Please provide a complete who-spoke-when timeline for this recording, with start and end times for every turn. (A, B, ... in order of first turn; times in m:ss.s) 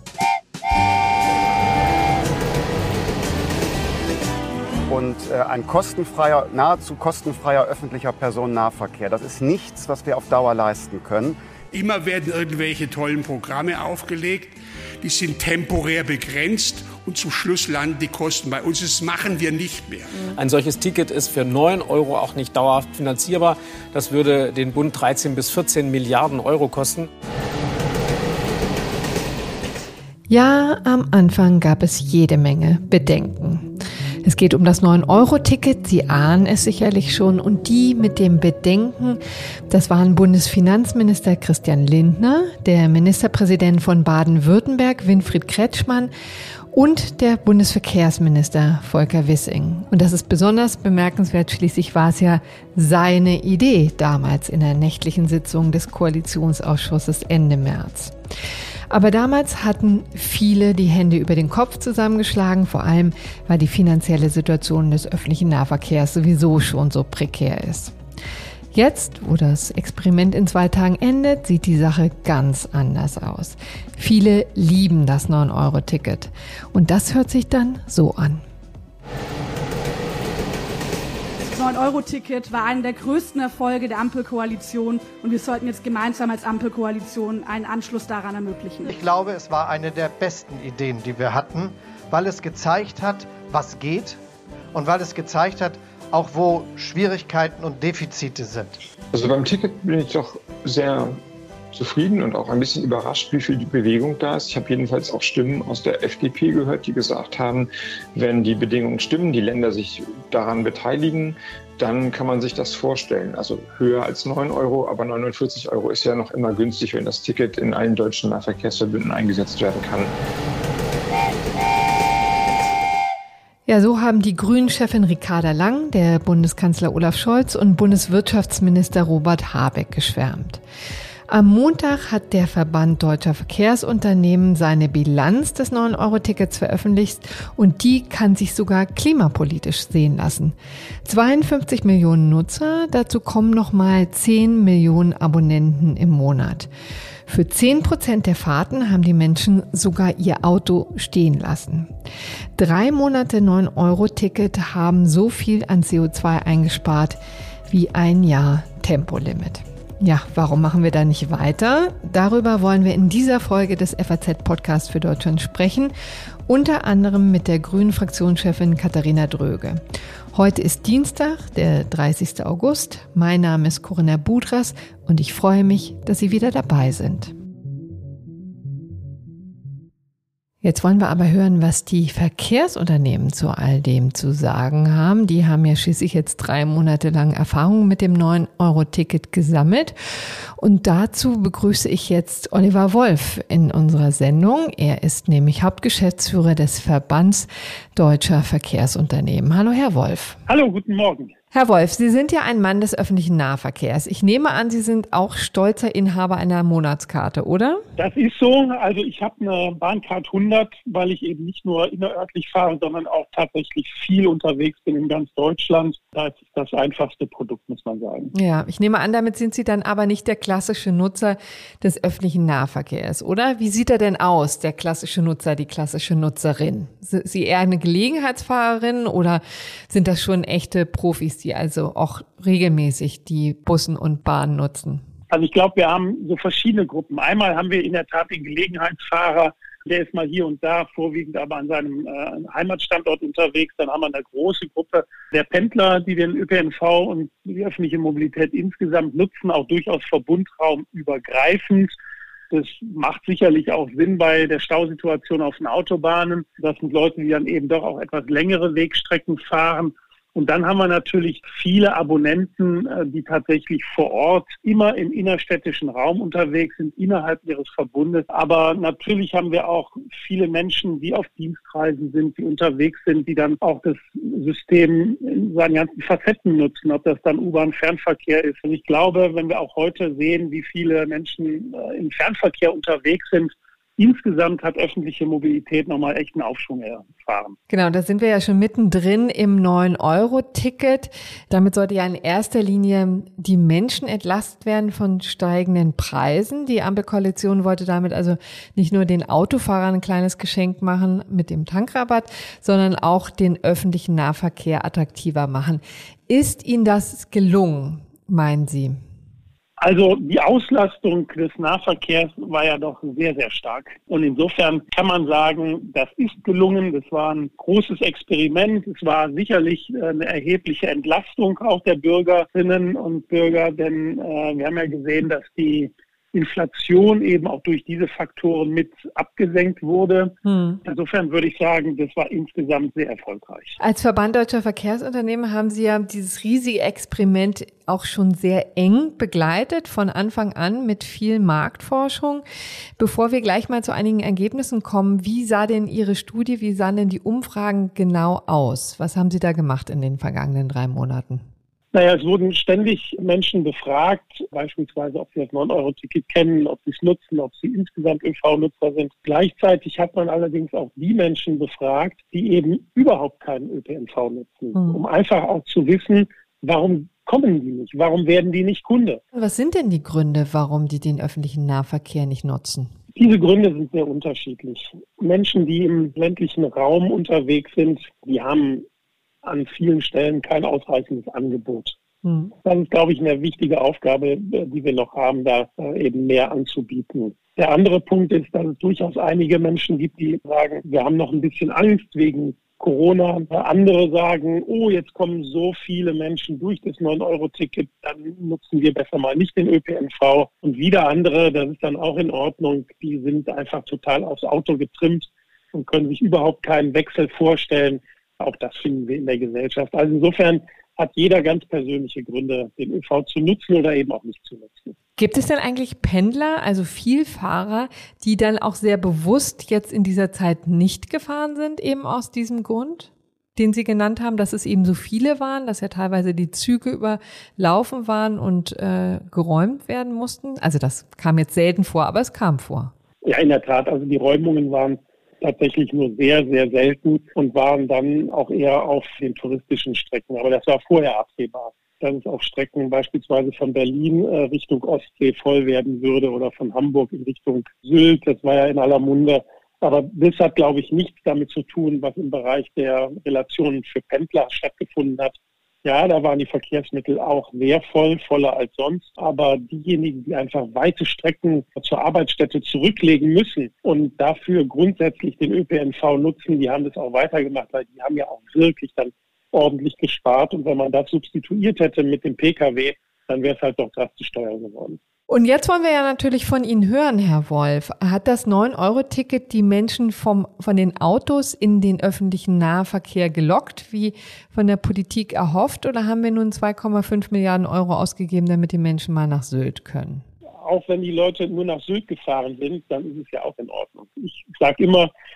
0:04.9-0:11.4 A
0:11.7-0:20.2 B
0:20.2-0:27.1 C
0:30.3-0:33.7 D
0:34.2-0:46.1 D
0:46.7-0:58.2 D
0:58.9-1:08.0 D
1:08.7-1:18.4 D
1:21.4-1:28.9 E
1:28.8-1:34.2 F
1:34.7-1:38.8 F
1:39.1-1:41.2 G
1:41.7-2:00.2 G
2:03.7-2:10.6 D
2:11.3-2:26.7 D
2:27.3-2:31.9 D
2:32.6-2:45.9 D
2:46.5-2:49.8 D
2:50.3-2:57.3 D
3:00.6-3:10.0 D
3:10.6-3:20.4 D
3:20.5-3:21.3 H
3:21.5-3:27.8 D
3:28.0-3:38.3 H
3:38.3-3:55.0 D
3:55.3-4:11.9 H
4:12.5-4:47.6 H
4:47.7-5:09.0 D
5:09.8-5:33.8 H
5:30.4-5:30.8 D
5:33.8-5:42.4 D
5:43.0-5:51.5 D
5:51.9-6:09.2 H
6:09.3-6:12.9 D
6:13.1-6:18.8 H
6:19.4-6:22.0 H
6:22.2-6:22.5 D
6:22.6-6:54.9 H
6:55.2-7:12.9 D
7:13.2-7:55.0 H
7:55.3-8:10.2 D
8:10.6-8:15.1 H